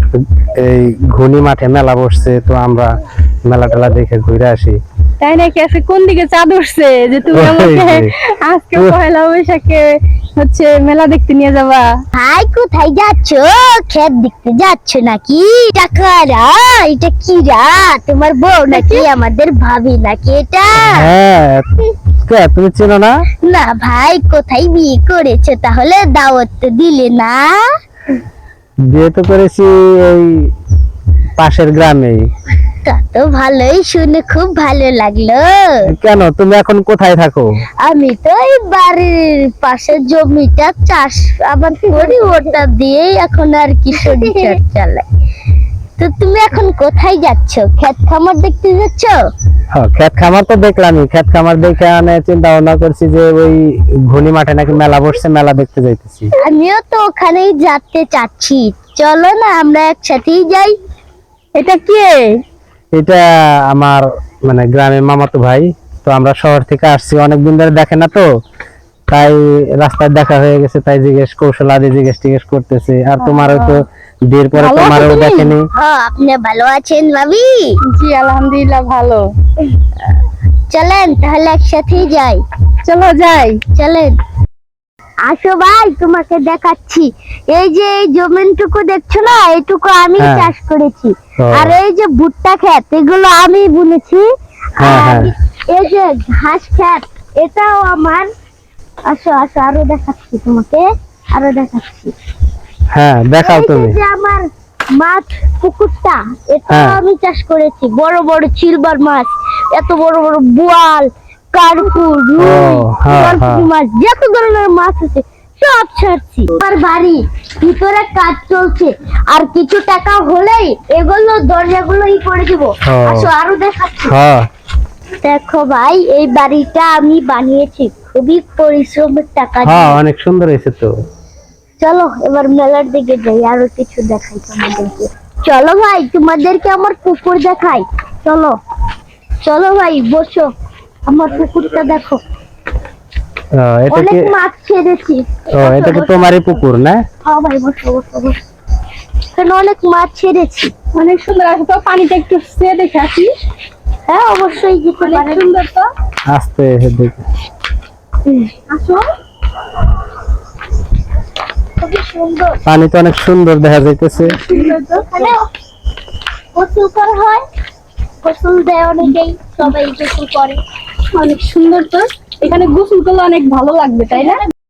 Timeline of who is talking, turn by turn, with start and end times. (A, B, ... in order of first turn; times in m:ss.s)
0:00.4-0:02.9 A
0:03.5-0:04.8 A
0:05.2-0:12.0 B
0:07.3-0:08.1 A
0:12.1-0:21.1 C
0:18.7-0:19.0 B
0:20.8-0:21.7 A
0:22.2-0:23.1 A
0:23.4-0:27.6 C
0:28.9-0:30.5 A
0:31.4-0:32.2 A
0:32.8-0:35.8 C
0:35.9-0:37.5 A
0:37.8-0:45.0 C
0:41.9-0:42.3 B
0:44.0-0:44.6 B
0:46.0-0:49.2 C
0:49.8-0:56.3 A
0:56.4-1:00.7 C
1:01.6-1:02.4 B
1:02.9-1:08.3 A
1:09.1-1:15.7 A
1:13.2-1:13.8 B
1:14.6-1:15.5 B
1:15.7-1:17.8 C
1:17.8-1:19.3 B
1:20.7-1:22.4 C
1:22.8-1:23.6 B
1:23.7-1:24.2 C
1:25.2-1:34.2 C
1:30.2-1:30.5 A
1:31.4-1:31.8 A
1:34.8-1:38.3 C
1:34.8-1:35.3 A
1:39.1-1:42.1 C
1:42.9-1:43.9 A
1:43.4-2:04.1 C
1:46.7-1:47.0 A
1:52.4-1:53.7 A
2:02.8-2:03.3 A
2:04.1-2:04.4 A
2:05.2-2:10.0 C
2:09.6-2:10.9 A
2:11.8-2:18.6 C
2:19.4-2:20.5 C
2:21.1-2:22.2 C
2:23.6-2:24.3 A
2:23.9-2:26.5 C
2:25.5-2:27.0 A
2:27.2-2:28.4 C
2:29.3-2:30.7 C
2:30.9-2:33.3 B
2:34.1-2:35.5 C
2:35.0-2:35.9 B
2:36.3-2:37.2 A
2:38.5-2:39.0 C
2:41.8-2:42.6 C
2:42.7-2:44.4 A
2:44.2-2:45.3 B
2:45.0-2:45.5 C
2:46.6-2:47.4 C
2:48.2-2:50.6 C
2:51.1-2:54.4 B